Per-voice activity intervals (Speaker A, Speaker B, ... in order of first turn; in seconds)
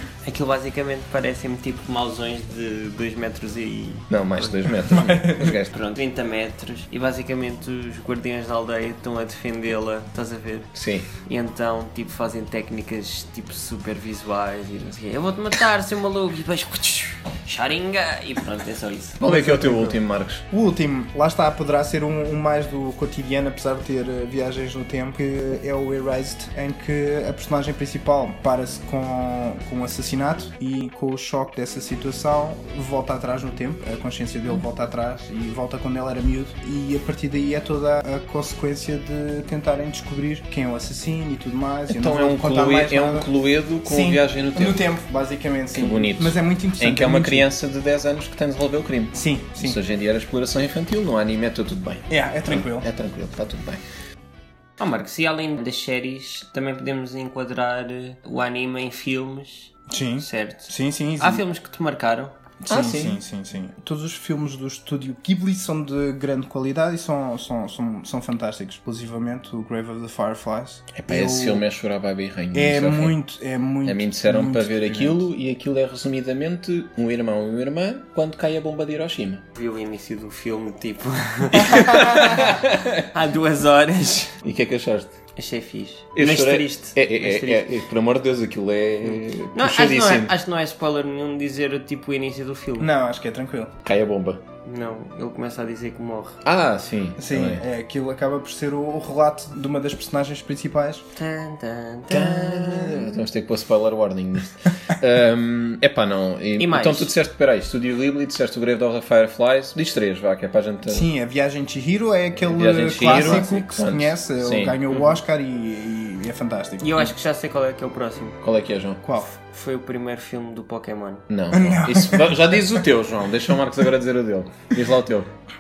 Speaker A: 0.2-4.6, 5.7-19.2, 54.8-62.4, 79.6-82.6, 83.1-84.3, 85.4-87.8, 89.0-92.9, 94.7-96.4, 101.2-103.2, 106.6-107.1, 113.0-113.5, 116.8-118.4, 119.4-121.2
Speaker B: 4.1-5.7, 10.7-11.1, 19.2-20.4, 41.9-44.8, 45.7-53.8, 62.7-63.2, 70.9-73.2, 73.8-79.4, 81.6-83.0, 84.4-85.1, 86.2-90.3, 93.8-94.4, 96.4-97.6, 102.1-111.1, 112.3-114.8, 118.4-119.0, 121.3-125.3
Speaker C: 4.9-5.5, 19.2-20.0, 20.5-43.3, 43.8-47.5, 49.1-49.8, 52.1-52.9, 59.9-61.5, 62.6-71.7, 72.5-75.2, 92.8-93.8, 97.2-101.0, 110.9-116.9, 119.0-119.3, 121.5-122.6